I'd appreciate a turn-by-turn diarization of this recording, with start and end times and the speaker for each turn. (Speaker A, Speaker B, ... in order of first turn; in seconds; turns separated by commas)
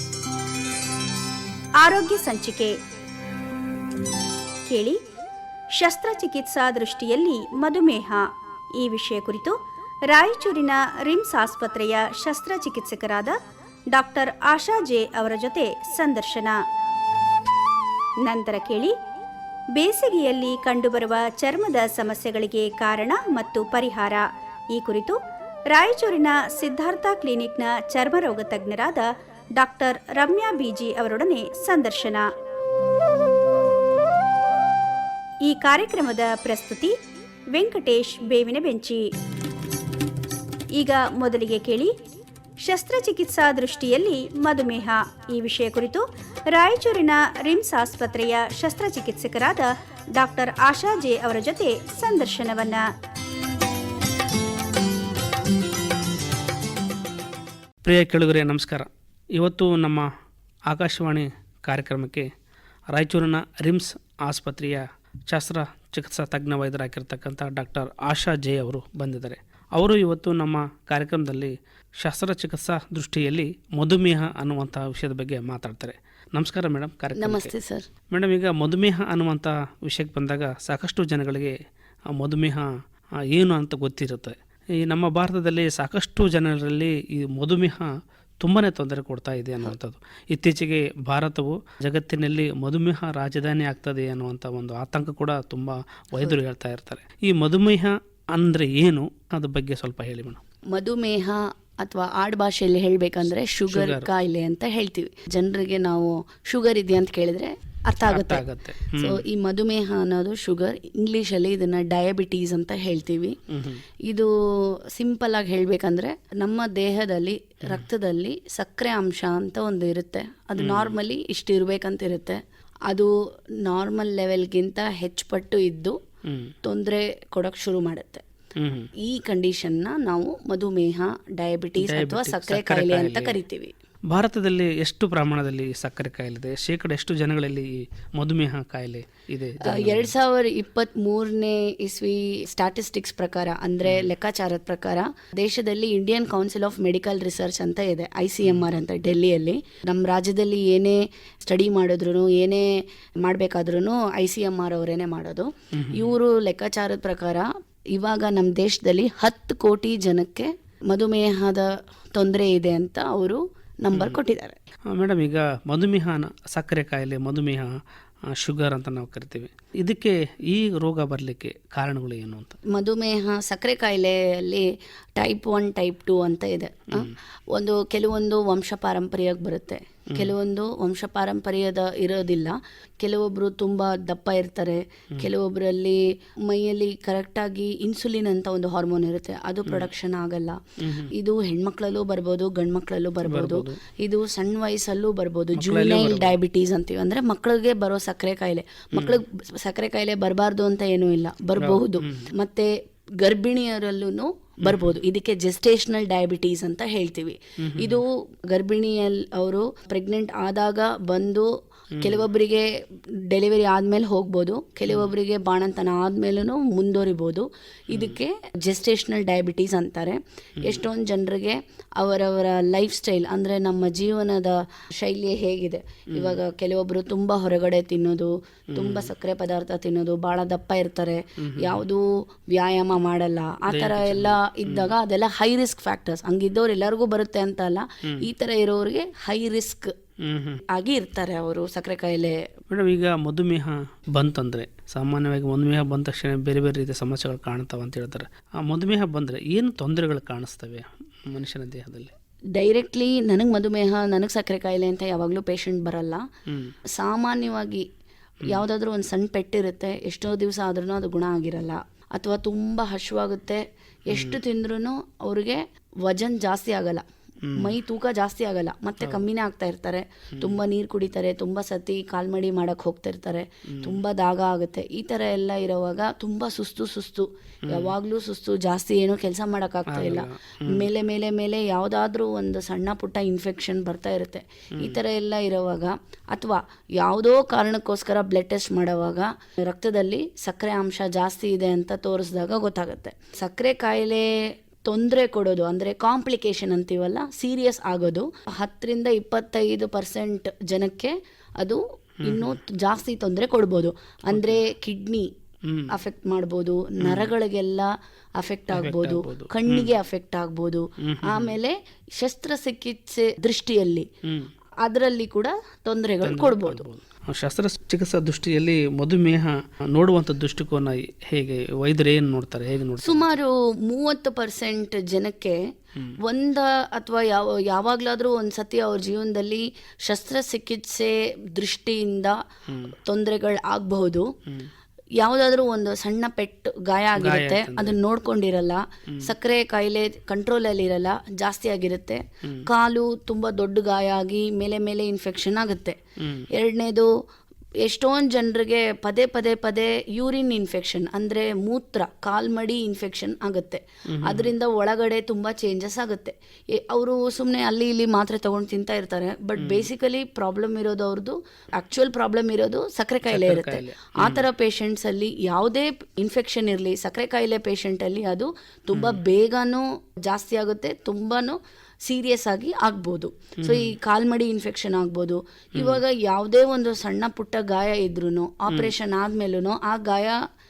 Speaker A: 1.8-2.8, Speaker A: 4.7-5.0, Speaker A: 5.7-9.6, Speaker A: 10.1-13.4, Speaker A: 13.9-16.6, Speaker A: 18.2-18.9, Speaker A: 19.8-25.2, Speaker A: 25.7-32.3, Speaker A: 35.4-37.0, Speaker A: 37.5-39.0, Speaker A: 40.8-41.9, Speaker A: 42.6-52.9, Speaker B: 57.8-60.1, Speaker B: 60.7-62.3, Speaker B: 62.9-77.5, Speaker C: 77.2-77.9, Speaker B: 78.1-81.5, Speaker B: 82.1-100.4, Speaker C: 100.7-113.4, Speaker B: 103.7-104.1, Speaker B: 108.1-109.2, Speaker B: 113.5-113.8, Speaker C: 114.1-126.0, Speaker B: 120.6-121.0, Speaker B: 126.2-126.5, Speaker C: 126.6-128.2, Speaker B: 128.6-128.9, Speaker C: 129.0-133.7, Speaker B: 131.8-133.4, Speaker B: 134.1-140.1, Speaker C: 139.6-164.6, Speaker B: 143.8-144.1, Speaker B: 148.4-148.7, Speaker B: 155.7-156.2, Speaker B: 163.9-164.2, Speaker B: 164.9-172.6, Speaker C: 172.7-212.7, Speaker B: 190.8-191.1, Speaker B: 193.2-193.8, Speaker B: 195.6-196.4, Speaker B: 198.9-199.2, Speaker B: 201.6-202.3, Speaker B: 204.6-205.0, Speaker B: 207.6-208.0, Speaker B: 212.0-212.3, Speaker C: 213.3-239.9, Speaker B: 217.9-218.2, Speaker B: 220.6-220.8, Speaker B: 226.1-226.4, Speaker B: 228.7-229.1, Speaker B: 231.4-231.8, Speaker B: 233.7-234.9, Speaker B: 240.2-240.6, Speaker C: 240.7-242.5, Speaker B: 242.7-252.1, Speaker C: 252.5-256.3, Speaker B: 256.5-256.8, Speaker C: 256.9-257.9, Speaker C: 258.4-267.0, Speaker B: 264.1-264.4, Speaker B: 267.4-267.8, Speaker C: 267.6-305.3, Speaker B: 273.7-274.0, Speaker B: 277.7-277.9, Speaker B: 279.9-280.9, Speaker B: 302.2-302.6, Speaker B: 304.3-304.6, Speaker B: 305.6-306.0, Speaker C: 305.9-314.1, Speaker B: 307.0-307.3, Speaker B: 308.7-309.9, Speaker B: 311.0-311.6, Speaker B: 314.2-314.5, Speaker C: 314.8-316.8, Speaker B: 316.2-323.4, Speaker C: 323.0-332.4, Speaker B: 332.7-332.9, Speaker C: 333.0-334.3, Speaker C: 335.2-346.0, Speaker B: 337.2-338.0, Speaker B: 339.1-339.3, Speaker B: 346.2-346.5, Speaker C: 346.5-347.1, Speaker C: 347.8-380.4, Speaker B: 354.1-354.5, Speaker B: 359.6-359.9, Speaker B: 363.2-364.5, Speaker B: 368.9-369.2, Speaker B: 373.6-373.9, Speaker B: 375.8-376.0